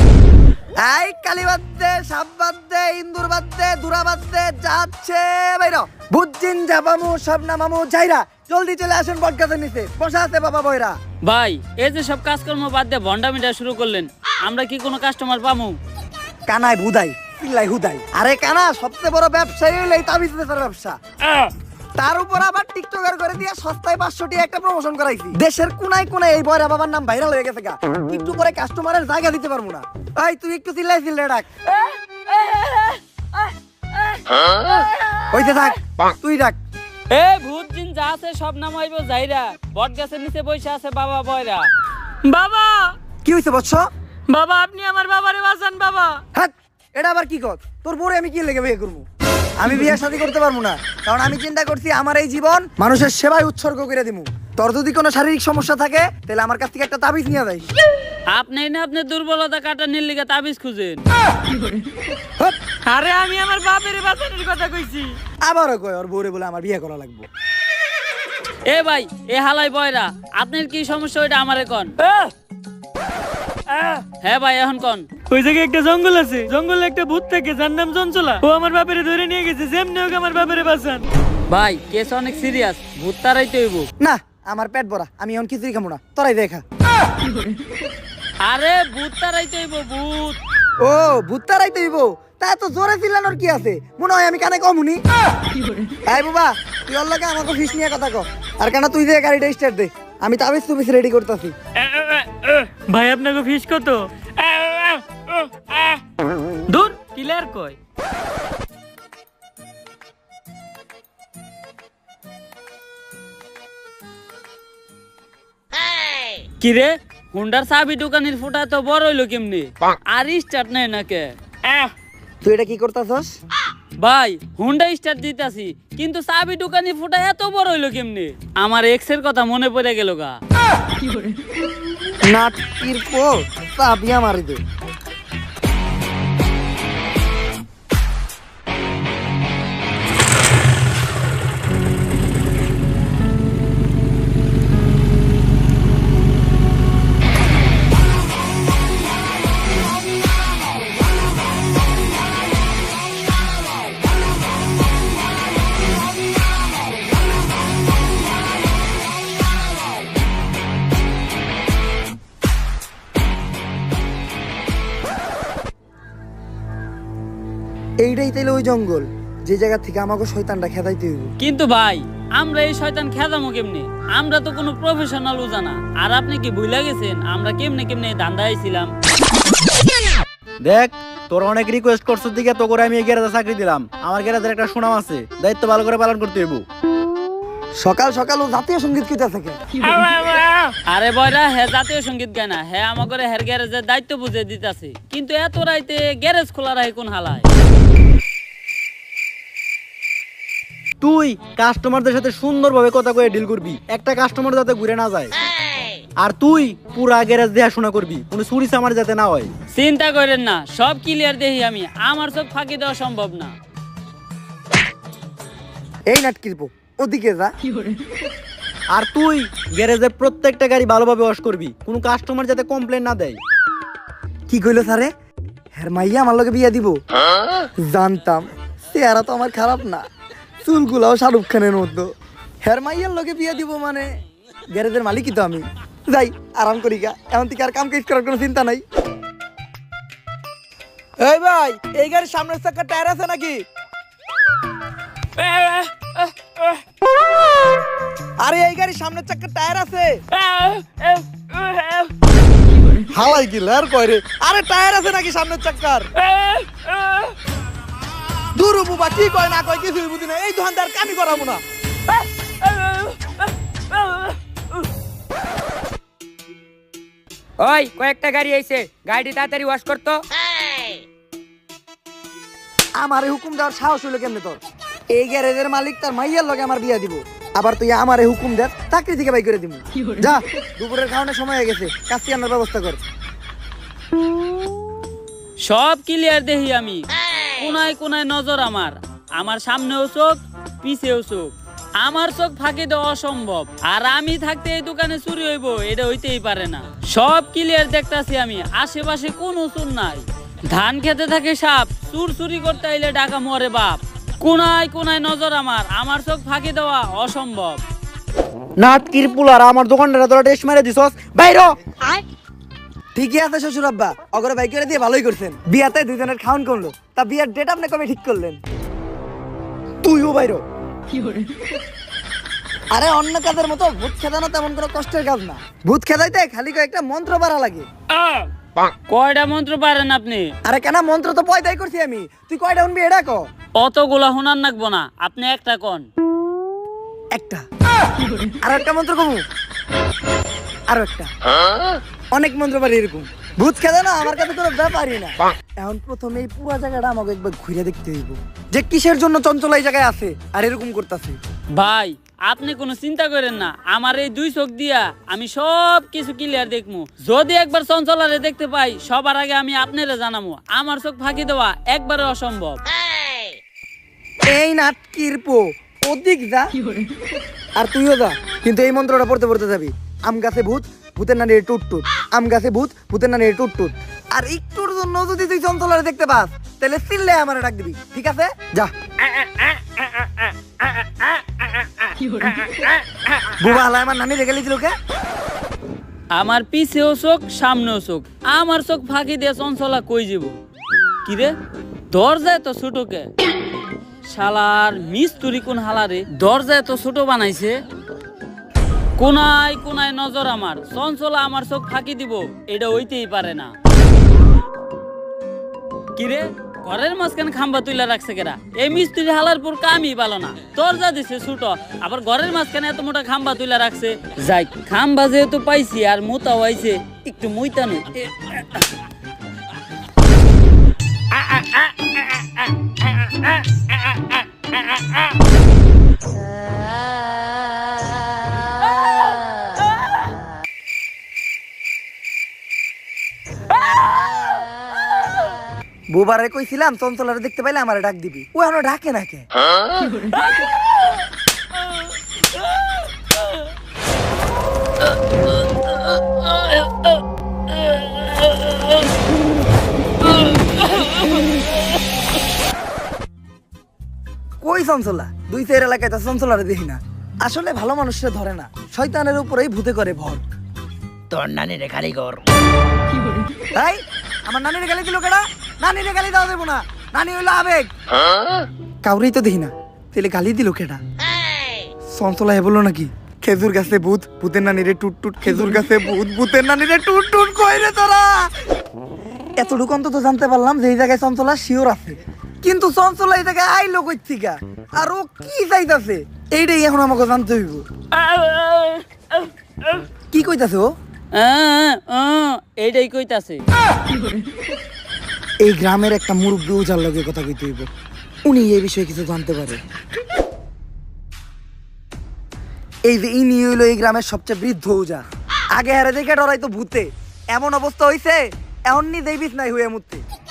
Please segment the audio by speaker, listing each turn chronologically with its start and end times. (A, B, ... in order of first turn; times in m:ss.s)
0:00.8-0:11.0 A
0:11.2-0:15.8 B
0:16.5-0:21.0 A
0:22.0-0:31.5 A
0:32.4-0:33.0 B
0:35.3-0:36.6 A
0:37.1-0:41.7 B
0:42.2-0:42.9 C
0:43.2-0:43.9 A
0:44.3-0:46.2 C
0:46.3-0:49.0 A
0:49.6-0:57.7 A
0:58.3-1:01.0 B
1:02.8-1:05.2 C
1:05.4-1:07.3 A
1:08.7-1:11.9 B
1:12.0-1:12.3 C
1:13.7-1:14.0 C
1:14.2-1:15.1 B
1:15.3-1:21.0 C
1:21.5-1:23.9 B
1:24.0-1:26.6 A
1:28.4-1:30.4 B
1:30.8-1:35.0 A
1:36.0-1:41.5 A
1:41.8-1:46.0 C
1:46.7-1:47.8 C
1:56.6-2:01.3 B
2:02.4-2:03.3 A
2:04.0-2:10.4 B
2:12.2-2:14.6 A
2:48.0-2:51.3 A
2:51.4-2:58.9 B
3:00.6-3:06.6 D
3:07.8-3:09.6 A
3:09.8-3:10.7 C
3:10.9-3:17.5 B
3:21.0-3:25.3 D
3:26.2-3:29.5 D
3:29.7-3:33.5 B
3:36.1-3:37.5 A
3:38.9-3:43.4 D
3:44.5-3:45.1 A
3:45.8-3:47.0 A
3:47.8-3:50.0 A
3:50.6-3:52.1 A
3:52.6-3:54.1 A
3:54.7-3:58.8 A
4:01.2-4:03.6 A
4:05.4-4:06.7 C
4:08.4-4:10.2 A
4:10.4-4:12.1 C
4:13.1-4:16.1 A
4:16.2-4:17.3 C
4:18.5-4:21.6 A
4:27.6-4:30.2 E
4:33.0-4:34.6 A
4:35.1-4:43.0 A
4:45.6-5:07.8 B
5:08.8-5:11.7 D
5:13.1-5:18.6 A
5:20.0-5:20.6 A
5:22.9-5:27.9 A
5:29.1-5:30.5 B
5:30.6-5:33.5 A
5:33.8-5:36.1 B
5:37.3-5:37.6 A
5:38.6-5:39.4 A
5:40.9-5:41.3 A
5:42.3-5:51.4 A
5:51.8-6:02.8 B
6:04.5-6:06.7 A
6:07.8-6:18.9 A
6:23.6-6:24.9 A
6:26.3-6:30.6 B
6:31.2-6:31.5 B
6:32.1-6:33.3 B
6:34.2-6:37.8 B
6:39.2-6:43.7 B
6:46.2-6:58.8 B
7:16.1-7:19.5 A
7:34.6-7:40.4 A
7:41.3-7:42.4 D
7:43.7-7:47.9 A
7:49.0-7:51.0 A
7:52.1-7:58.5 A
7:59.6-8:07.8 A
8:08.3-8:09.0 B
8:10.3-8:10.9 A
8:11.3-8:13.6 B
8:15.6-8:17.9 A
8:18.4-8:19.8 A
8:23.0-8:30.2 A